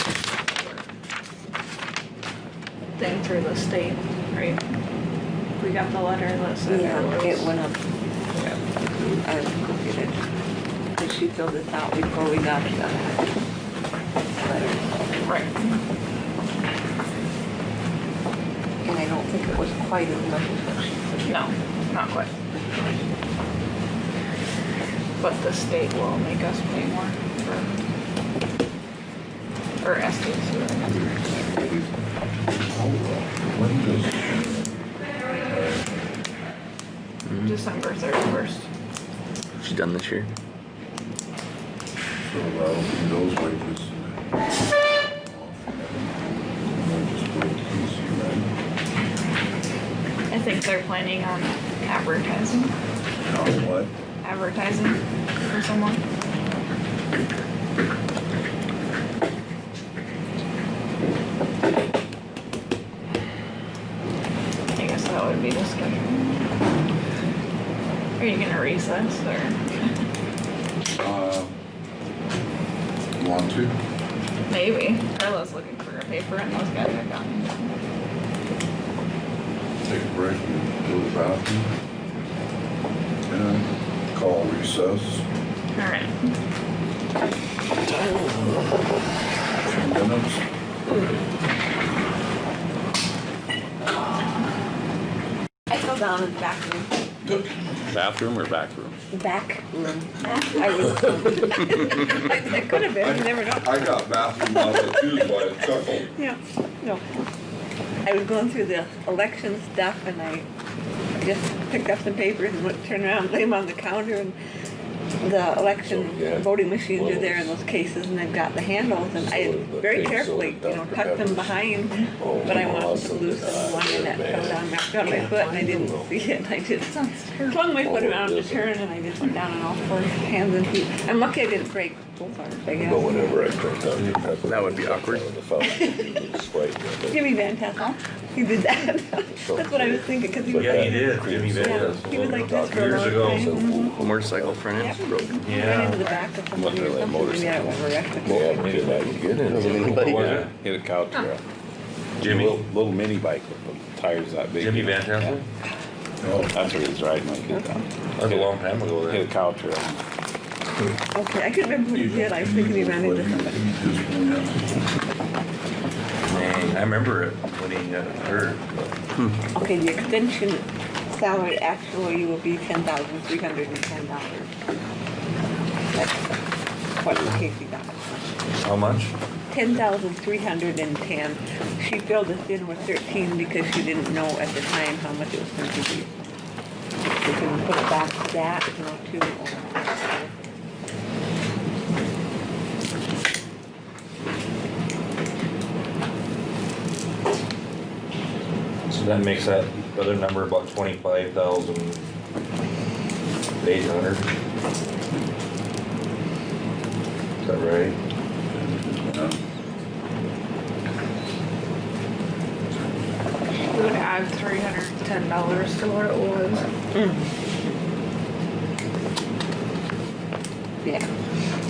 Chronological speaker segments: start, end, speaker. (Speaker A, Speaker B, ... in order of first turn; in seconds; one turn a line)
Speaker A: 0.5-0.8
Speaker A: 3.0-4.6
Speaker A: 5.6-7.5
Speaker B: 6.7-7.8
Speaker B: 9.2-10.2
Speaker B: 11.0-13.3
Speaker B: 14.4-14.9
Speaker A: 15.2-15.8
Speaker B: 18.8-21.3
Speaker A: 21.2-22.3
Speaker A: 25.2-27.8
Speaker A: 29.8-31.0
Speaker C: 31.1-31.9
Speaker D: 32.7-34.6
Speaker D: 35.5-35.9
Speaker A: 37.4-38.7
Speaker E: 39.6-40.3
Speaker D: 42.2-44.2
Speaker D: 45.3-46.2
Speaker D: 46.7-48.5
Speaker A: 50.3-52.7
Speaker D: 53.3-53.9
Speaker A: 54.2-56.0
Speaker A: 64.7-66.5
Speaker A: 68.2-69.9
Speaker D: 71.0-71.5
Speaker D: 73.2-73.8
Speaker A: 74.5-77.7
Speaker D: 79.9-81.7
Speaker D: 83.3-85.2
Speaker A: 85.8-86.3
Speaker D: 89.8-90.4
Speaker B: 95.7-97.1
Speaker C: 97.9-99.0
Speaker B: 99.1-107.0
Speaker D: 103.0-106.1
Speaker B: 108.0-110.5
Speaker B: 111.2-114.4
Speaker B: 115.2-127.0
Speaker F: 115.8-117.5
Speaker F: 119.2-121.7
Speaker F: 122.2-126.1
Speaker A: 126.8-127.6
Speaker B: 127.5-133.1
Speaker F: 127.8-128.7
Speaker F: 132.7-137.3
Speaker E: 134.4-135.3
Speaker B: 135.6-136.2
Speaker B: 137.1-143.9
Speaker F: 139.3-144.6
Speaker G: 140.6-143.6
Speaker E: 143.9-145.4
Speaker A: 144.8-146.3
Speaker G: 145.4-146.0
Speaker B: 145.5-149.1
Speaker C: 146.5-147.9
Speaker F: 148.2-150.5
Speaker E: 148.5-150.2
Speaker C: 149.6-151.4
Speaker G: 149.9-150.5
Speaker G: 152.2-152.7
Speaker C: 152.2-155.4
Speaker G: 154.6-155.5
Speaker D: 156.2-156.5
Speaker C: 156.5-160.0
Speaker G: 158.2-159.2
Speaker B: 161.1-163.7
Speaker D: 161.9-164.6
Speaker G: 166.3-168.9
Speaker B: 169.5-174.5
Speaker B: 175.9-176.2
Speaker B: 177.0-178.1
Speaker G: 178.6-179.1
Speaker B: 179.5-186.1
Speaker B: 187.2-190.5
Speaker G: 198.9-202.1
Speaker G: 203.6-204.3
Speaker G: 207.4-208.0
Speaker D: 208.6-209.4
Speaker A: 213.7-216.7
Speaker B: 216.9-217.3
Speaker B: 220.8-221.1